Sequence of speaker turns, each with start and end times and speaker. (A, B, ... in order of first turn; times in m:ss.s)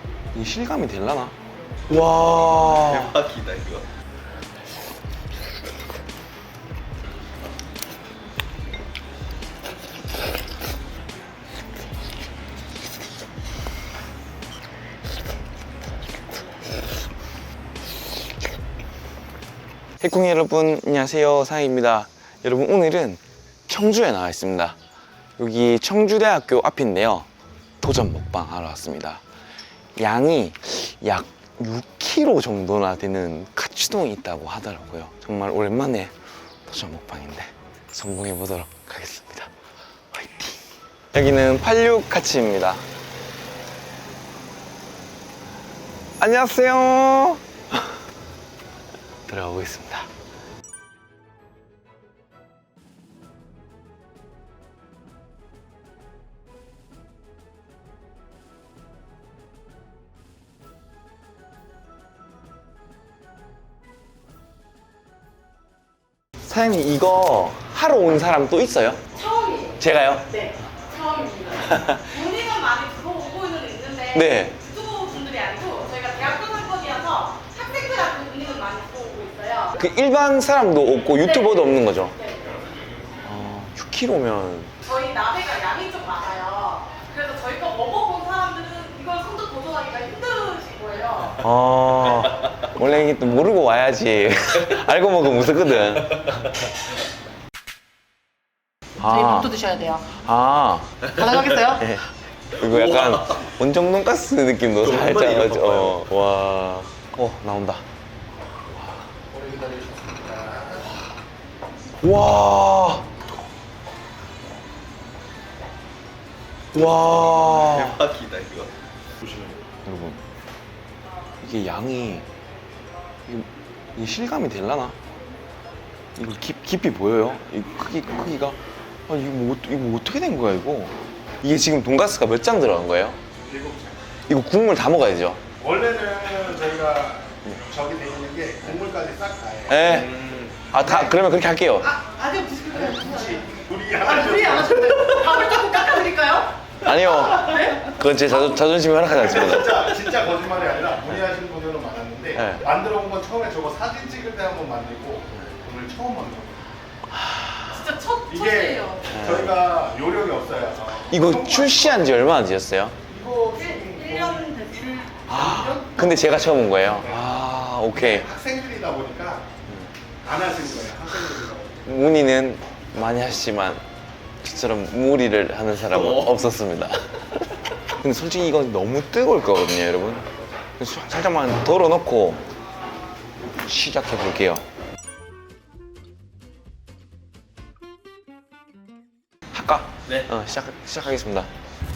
0:00.3-0:01.3 A
0:01.9-0:03.1 A
0:02.4-0:03.9 B
0:20.0-0:24.8 A
0:25.4-0:27.3 A
0:27.8-0:29.2 A
0:30.0-0:36.1 A
0:36.6-0:39.5 A
0:40.1-0:40.6 A
0:41.1-0:42.8 A
0:46.2-0:47.4 A
0:49.3-0:50.1 A
1:06.4-1:09.0 A
1:09.2-1:19.8 C
1:09.8-1:10.3 A
1:11.7-1:12.1 A
1:14.1-1:14.6 A
1:19.8-1:22.2 A
1:21.2-1:22.6 C
1:23.2-1:24.7 A
1:24.8-1:31.4 C
1:31.4-1:36.4 A
1:39.0-1:41.0 A
1:39.0-1:40.1 C
1:41.1-1:41.8 C
1:41.6-1:47.8 A
1:42.7-1:43.1 B
1:44.8-1:46.0 B
1:49.3-1:50.9 D
1:52.0-1:53.1 A
1:56.7-1:58.0 A
1:57.4-1:58.7 B
1:59.8-2:00.2 A
2:01.4-2:02.3 A
2:03.3-2:05.0 A
2:06.2-2:13.2 A
2:13.3-2:14.0 D
2:14.3-2:15.4 A
2:15.6-2:20.0 D
2:19.7-2:22.0 A
2:20.2-2:20.5 B
2:21.9-2:23.4 C
2:22.7-2:24.9 D
2:24.0-2:27.8 C
2:26.8-2:29.9 A
2:29.2-2:36.6 D
2:32.4-2:32.6 A
2:37.2-2:37.6 A
2:37.7-2:39.2 C
2:38.2-2:42.2 D
2:39.1-2:39.5 A
2:41.1-2:43.0 A
2:43.1-2:44.5 D
2:43.6-2:46.3 C
2:45.3-2:48.2 A
2:46.9-2:49.5 D
2:50.2-2:51.9 D
2:51.9-2:53.8 A
2:54.4-2:57.3 A
2:57.8-3:00.2 A
3:00.8-3:02.4 A
3:03.6-3:04.6 A
3:09.5-3:11.5 A